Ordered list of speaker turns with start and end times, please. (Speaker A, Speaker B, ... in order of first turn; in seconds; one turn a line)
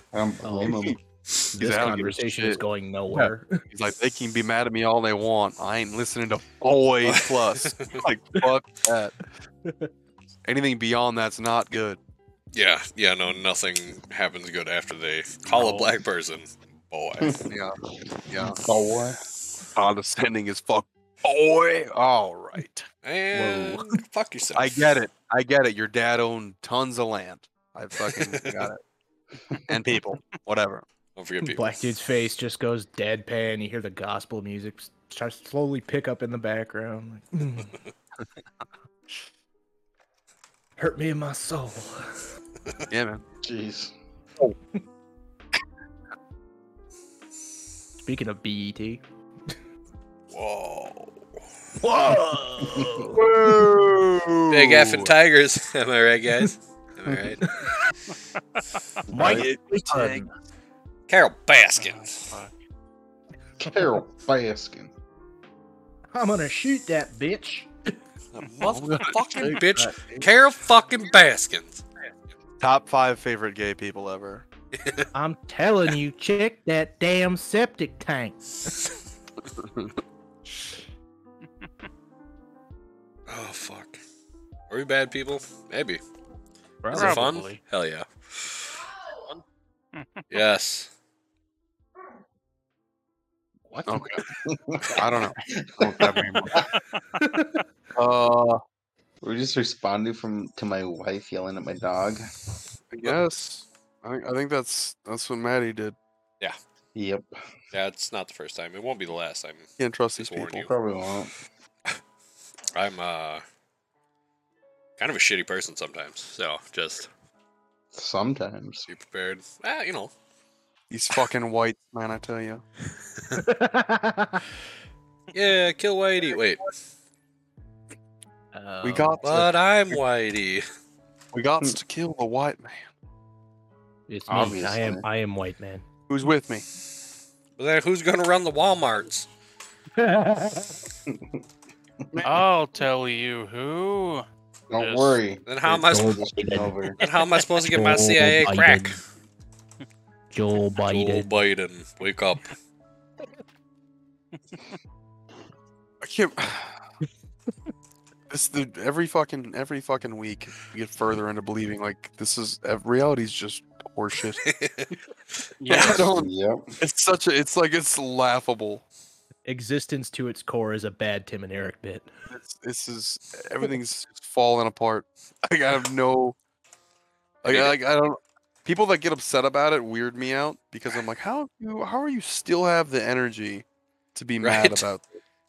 Speaker A: 0.1-1.0
Speaker B: 0.4-0.9
Speaker C: 0.7-0.9
Speaker C: 1.5-2.6
Speaker B: 1.6-3.6
Speaker C: 3.1-9.2
Speaker D: 7.0-8.0
Speaker C: 10.5-12.0
Speaker D: 12.5-17.4
Speaker C: 15.5-15.9
Speaker C: 17.5-17.8
Speaker C: 18.3-18.6
Speaker A: 18.3-19.2
Speaker C: 19.8-22.9
Speaker D: 23.0-24.7
Speaker B: 23.3-24.0
Speaker C: 24.6-28.8
Speaker D: 28.0-28.6
Speaker C: 29.7-30.9
Speaker D: 31.2-31.8
Speaker B: 31.4-37.7
Speaker B: 40.8-42.1
Speaker C: 42.9-43.2
Speaker A: 43.4-43.9
Speaker B: 48.0-49.0
Speaker D: 50.3-51.1
Speaker B: 51.8-53.2
Speaker C: 53.1-55.1
Speaker D: 54.5-57.5
Speaker B: 59.1-60.3
Speaker C: 59.1-60.2
Speaker D: 61.1-62.3
Speaker E: 61.8-62.5
Speaker A: 63.6-64.9
Speaker B: 66.1-67.9
Speaker D: 68.3-71.8
Speaker C: 68.6-70.3
Speaker C: 72.6-74.5
Speaker D: 74.8-75.1
Speaker B: 75.1-78.8
Speaker C: 79.6-79.9
Speaker D: 83.3-84.0
Speaker D: 84.7-86.0
Speaker B: 86.8-87.2
Speaker E: 86.9-87.6
Speaker D: 86.9-88.7
Speaker E: 90.0-90.2
Speaker D: 90.3-90.9
Speaker B: 93.7-94.0
Speaker C: 93.8-94.2
Speaker A: 94.5-96.7
Speaker C: 94.8-96.7
Speaker B: 97.2-97.6
Speaker C: 98.0-98.6
Speaker A: 99.2-102.2
Speaker C: 102.9-106.0
Speaker A: 107.0-107.3
Speaker D: 107.7-110.7
Speaker C: 109.8-110.7
Speaker A: 110.6-111.3
Speaker D: 112.8-113.4
Speaker D: 115.0-117.1
Speaker A: 117.9-118.9
Speaker D: 118.9-120.1
Speaker C: 120.9-122.6
Speaker B: 123.4-124.5
Speaker D: 125.3-126.7
Speaker B: 128.5-129.2
Speaker C: 128.8-130.0
Speaker D: 129.2-130.6
Speaker C: 131.3-132.9
Speaker B: 134.1-135.8
Speaker A: 134.3-135.1
Speaker C: 136.1-136.6
Speaker D: 137.6-139.3
Speaker B: 140.0-140.8
Speaker E: 142.2-145.2
Speaker A: 144.7-147.0
Speaker D: 145.4-146.3
Speaker B: 145.8-146.8
Speaker D: 147.0-149.0
Speaker B: 147.6-149.0
Speaker B: 150.3-151.3
Speaker D: 150.8-152.5
Speaker C: 156.0-156.8
Speaker C: 158.3-164.4
Speaker D: 164.4-164.9
Speaker E: 165.6-166.0
Speaker C: 165.7-168.8
Speaker A: 165.8-166.7
Speaker B: 169.5-172.1
Speaker C: 172.3-176.4
Speaker C: 177.4-185.1
Speaker D: 177.5-177.8
Speaker D: 184.4-184.8